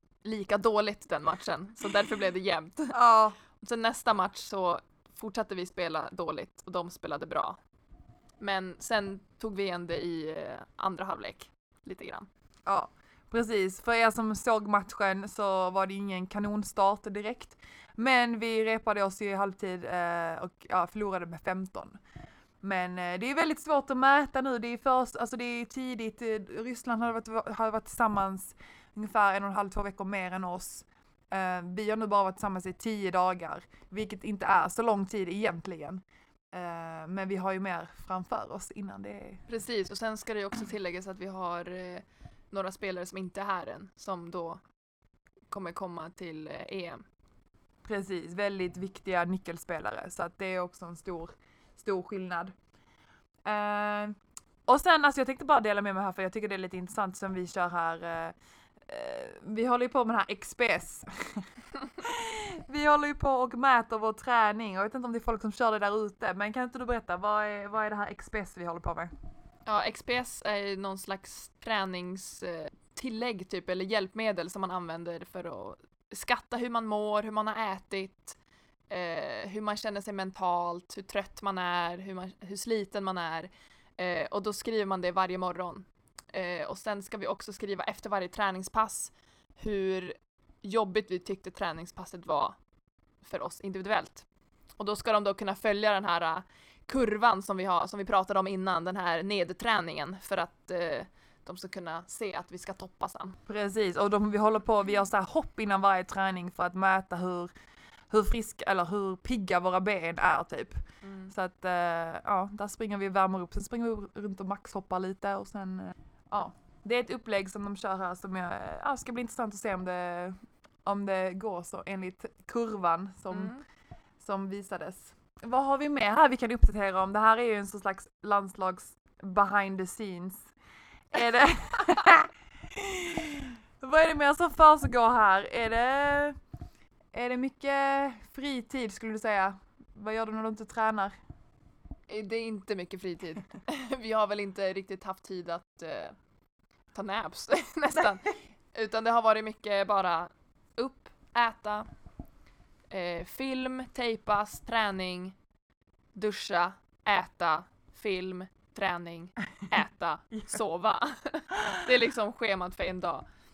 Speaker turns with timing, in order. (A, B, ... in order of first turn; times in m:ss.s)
0:00.2-0:03.0 A
0:02.9-0:03.4 B
0:03.6-0:07.6 A
0:08.4-0:12.3 A
0:12.6-0:22.0 B
0:22.6-0:39.4 B
0:39.5-0:44.6 A
0:45.5-0:47.0 A
0:47.8-0:52.5 B
0:53.4-1:01.5 B
1:02.0-1:09.1 B
1:09.6-1:18.4 A
1:18.9-1:32.6 A
1:33.2-1:34.2 A
1:34.8-1:43.4 A
1:43.5-1:47.5 B
1:48.1-2:03.6 B
1:51.0-1:51.3 A
2:03.3-2:03.6 A
2:04.2-2:10.5 B
2:11.1-2:16.4 B
2:17.1-2:21.2 B
2:22.1-2:26.2 A
2:26.9-2:31.9 A
2:32.9-2:35.3 A
2:36.1-2:43.2 A